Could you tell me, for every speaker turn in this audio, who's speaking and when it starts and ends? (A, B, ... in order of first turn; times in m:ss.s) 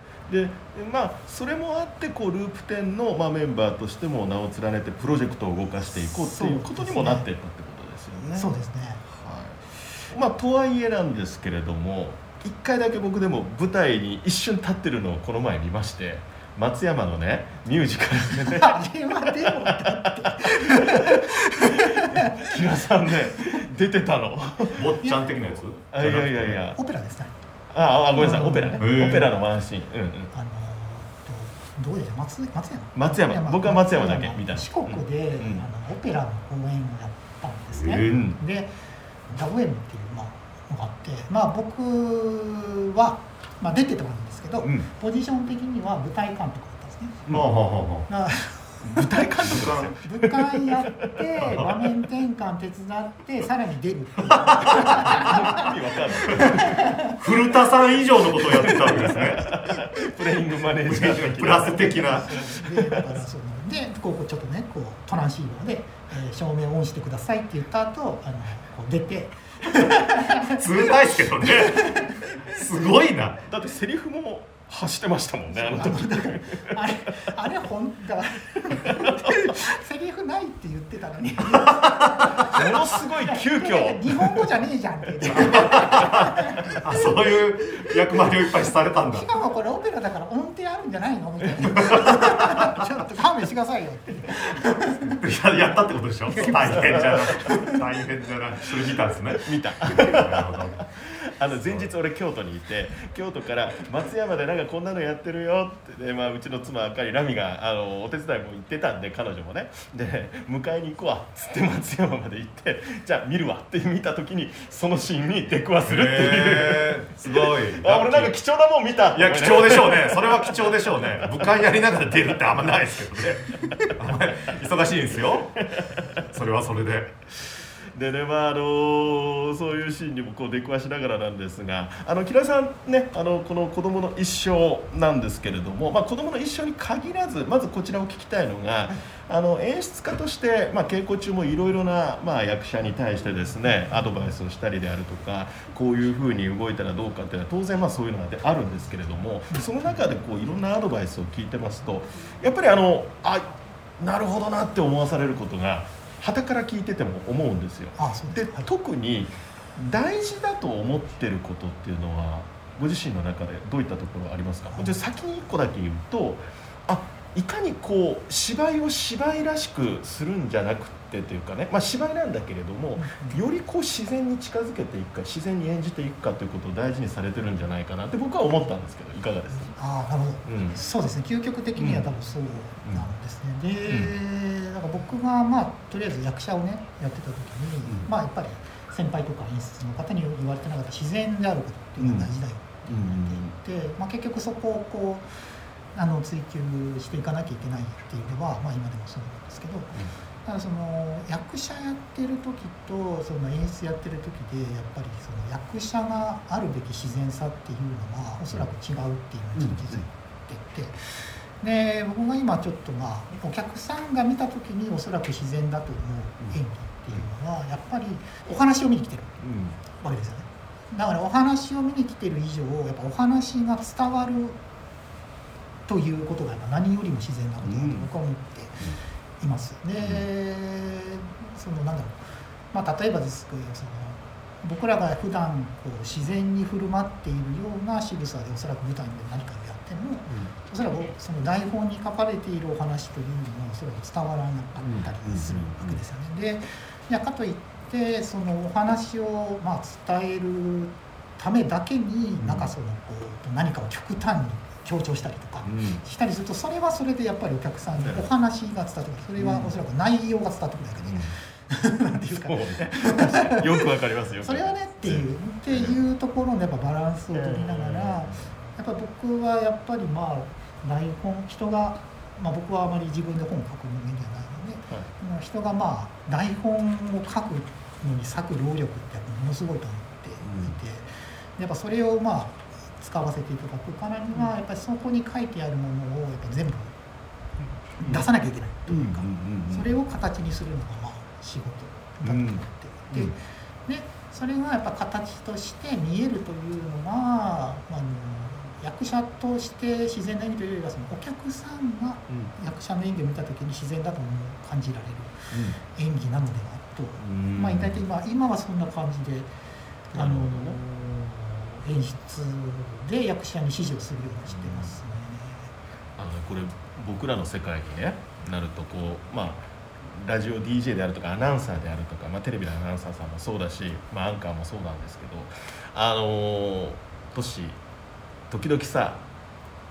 0:00.3-0:08.5 A
0:06.0-0:07.3 B
0:08.3-0:09.0 B
0:09.1-0:18.8 A
0:18.5-0:22.6 B
0:19.4-0:21.2 A
0:21.8-0:24.9 A
0:24.8-0:26.6 C
0:25.0-0:25.3 B
0:25.9-0:26.8 A
0:26.7-0:27.5 B
0:27.7-0:30.3 A
0:28.1-0:29.2 B
0:28.8-0:29.3 C
0:30.3-0:38.7 B
0:33.0-0:35.7 A
0:37.7-0:38.2 C
0:38.0-0:38.4 A
0:39.3-0:47.3 B
0:47.3-0:48.1 C
0:48.1-0:49.2 B
0:48.8-0:50.9 A
0:49.4-0:50.0 C
0:50.0-0:55.8 B
0:51.4-0:51.7 C
0:54.3-0:55.4 C
0:54.7-0:56.8 A
0:56.3-0:56.6 C
0:56.3-0:57.2 B
0:57.2-0:59.5 C
0:58.4-1:03.2 A
1:00.9-1:02.3 C
1:01.7-1:10.9 B
1:10.5-1:11.8 C
1:11.4-1:12.3 B
1:12.5-1:13.4 C
1:13.5-1:16.6 A
1:15.5-1:27.9 B
1:19.0-1:19.3 A
1:22.5-1:24.4 A
1:25.2-1:29.3 C
1:29.1-1:35.2 B
1:31.8-1:32.2 C
1:35.1-1:40.8 C
1:36.3-1:37.8 B
1:36.7-1:37.4 A
1:39.3-2:01.5 A
1:55.9-1:58.3 C
1:59.1-2:05.6 C
2:05.6-2:06.2 A
2:06.3-2:07.1 C
2:08.0-2:59.7 A
2:23.7-2:24.3 B
2:29.5-2:30.0 B
2:38.0-2:38.7 B
2:53.0-2:53.4 B
2:59.7-3:15.3 B
3:00.5-3:00.8 A
3:01.8-3:02.1 A
3:03.9-3:04.1 A
3:12.0-3:12.3 A
3:12.9-3:13.6 A
3:15.9-3:31.0 B
3:29.6-3:30.0 A
3:31.6-3:39.4 B
3:39.4-3:39.8 A
3:39.9-3:44.6 B
3:45.9-3:52.2 B
3:47.6-3:48.1 A
3:50.0-3:50.3 A
3:52.7-4:46.9 B
4:04.8-4:06.0 A
4:12.4-4:12.7 A
4:15.6-4:16.0 A
4:18.0-4:18.3 A
4:19.4-4:19.8 A
4:21.0-4:21.3 A
4:22.2-4:26.0 A
4:27.3-4:28.5 A
4:40.4-4:40.8 A
4:48.0-5:09.5 B
4:48.9-4:49.9 A
4:52.2-4:53.3 A
5:05.5-5:05.8 A
5:07.2-5:08.0 A
5:10.1-5:15.7 B
5:10.1-5:10.8 A
5:14.5-5:15.0 A
5:16.2-5:27.8 A
5:28.5-5:29.2 A